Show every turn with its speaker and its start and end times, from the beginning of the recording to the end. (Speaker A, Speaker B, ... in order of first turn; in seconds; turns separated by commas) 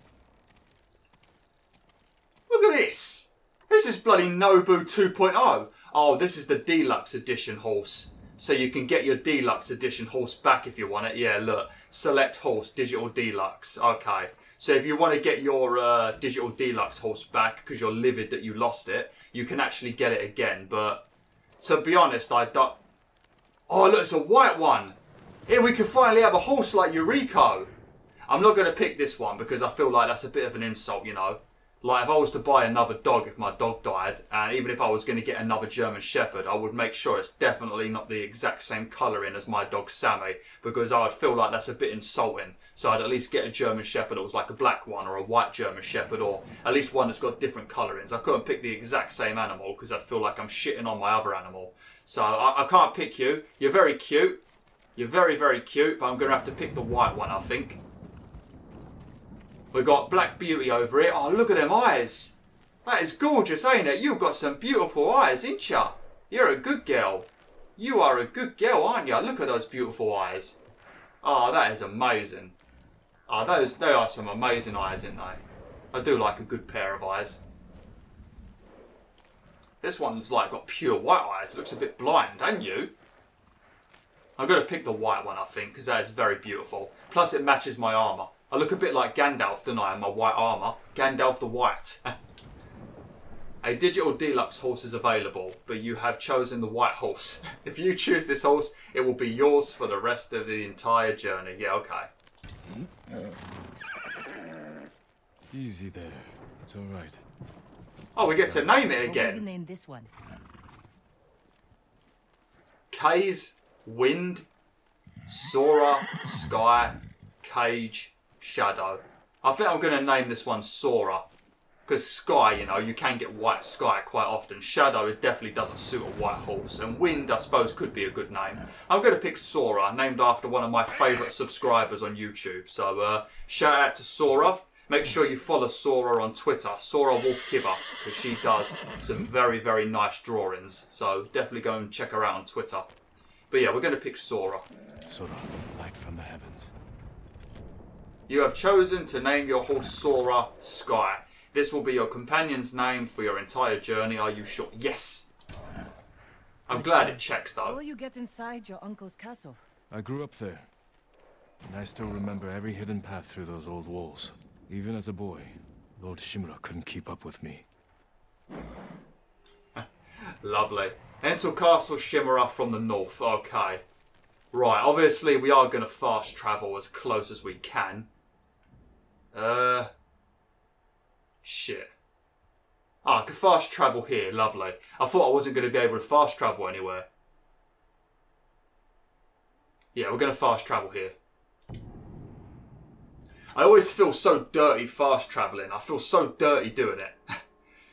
Speaker A: 2.5-21.1, Speaker A: 21.6-22.8, Speaker A: 23.7-25.0, Speaker A: 25.5-27.7, Speaker A: 28.3-54.4, Speaker A: 55.0-57.8, Speaker A: 59.7-70.6, Speaker A: 71.2-72.6, Speaker A: 73.3-75.4, Speaker A: 75.9-77.4, Speaker A: 79.8-82.9, Speaker A: 84.4-92.1, Speaker A: 93.6-102.1, Speaker B: 105.5-107.2, Speaker A: 108.2-109.4, Speaker C: 109.0-110.1, Speaker A: 112.9-114.5, Speaker A: 115.3-121.3, Speaker A: 121.9-142.9, Speaker A: 143.5-144.7, Speaker B: 145.1-146.7, Speaker A: 148.3-155.3, Speaker A: 156.7-157.8, Speaker C: 156.7-159.6, Speaker B: 159.9-160.7, Speaker B: 161.6-167.7, Speaker A: 170.4-173.8, Speaker A: 174.5-178.1, Speaker A: 179.3-179.9, Speaker A: 181.4-181.9, Speaker A: 183.0-187.1, Speaker A: 189.9-191.2, Speaker A: 193.5-197.3